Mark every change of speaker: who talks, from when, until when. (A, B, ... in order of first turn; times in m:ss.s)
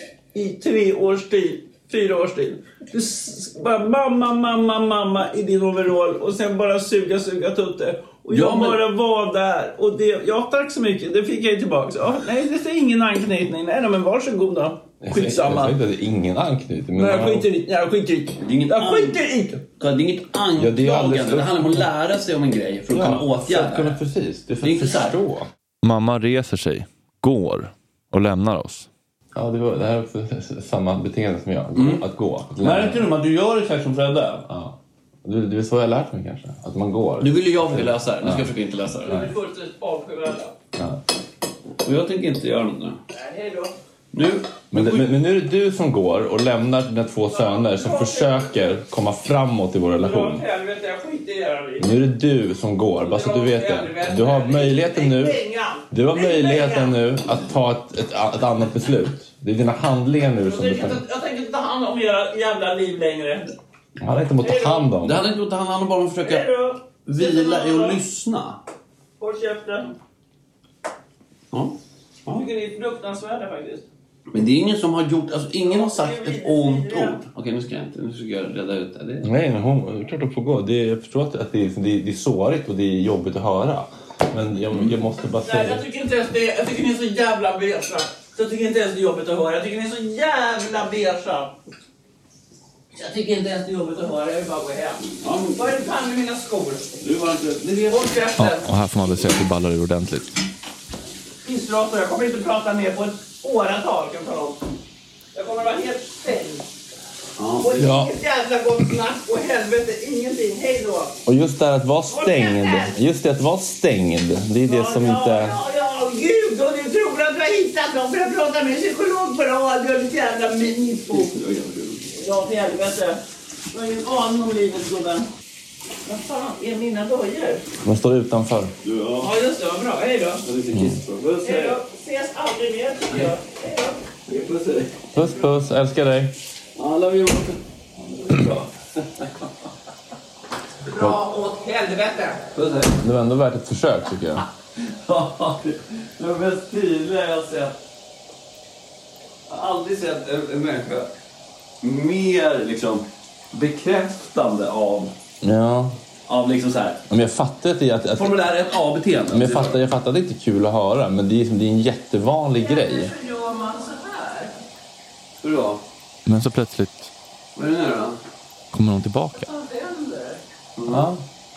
0:00.3-0:15.8 A
0:08.3-0:08.8 B
0:15.0-0:17.5 C
0:16.9-0:19.6 A
0:18.4-0:24.0 B
0:20.6-0:21.9 C
0:22.9-0:25.5 C
0:24.6-0:25.2 B
0:25.8-0:28.9 D
0:29.3-0:33.1 C
0:31.7-0:32.0 B
0:32.6-0:34.5 B
0:34.5-0:38.5 C
0:37.2-0:39.3 B
0:39.0-0:39.3 C
0:39.0-0:40.6 A
0:41.8-0:43.0 B
0:43.1-0:43.7 A
0:44.1-0:45.1 B
0:44.7-0:50.4 C
0:47.2-0:48.8 A
0:49.9-0:52.0 A
0:51.8-1:01.0 C
0:53.0-0:57.0 A
1:00.4-1:03.6 A
1:04.0-1:05.2 C
1:04.4-1:04.9 A
1:05.0-1:06.5 B
1:06.2-1:08.0 A
1:07.0-1:08.6 B
1:09.2-1:10.0 A
1:11.5-1:12.4 B
1:12.3-1:13.9 A
1:14.3-1:19.3 B
1:15.6-1:17.2 A
1:19.2-1:25.8 C
1:25.4-1:31.6 A
1:32.9-1:37.0 A
1:35.2-1:35.8 B
1:37.0-1:38.2 B
1:37.8-1:38.7 A
1:38.4-1:40.3 D
1:41.4-1:44.6 A
1:45.3-1:46.7 A
1:47.4-1:48.0 B
1:47.6-1:51.2 A
1:51.2-1:55.6 C
1:52.1-1:52.9 A
1:54.6-2:01.4 A
2:01.1-2:02.1 B
2:02.1-2:05.3 A
2:06.0-2:07.7 A
2:07.8-2:08.7 C
2:08.8-2:09.3 B
2:09.2-2:10.5 A
2:10.4-2:11.8 B
2:10.7-2:11.0 C
2:11.4-2:14.2 A
2:14.3-2:15.0 B
2:15.1-2:16.3 C
2:16.8-2:18.7 B
2:20.9-2:22.5 A
2:22.5-2:23.0 B
2:23.0-2:24.4 C
2:24.9-2:27.7 B
2:29.5-2:31.1 B
2:31.8-2:35.1 B
2:35.4-2:36.0 C
2:36.3-2:37.0 B
2:37.1-2:38.5 C
2:38.2-2:39.9 B
2:39.3-2:43.1 C
2:42.6-2:44.5 A
2:45.4-2:45.8 B
2:46.2-2:47.1 D
2:47.6-2:48.2 B
2:48.7-2:49.5 D
2:49.4-2:50.4 A
2:50.8-2:51.1 B
2:50.9-2:51.2 C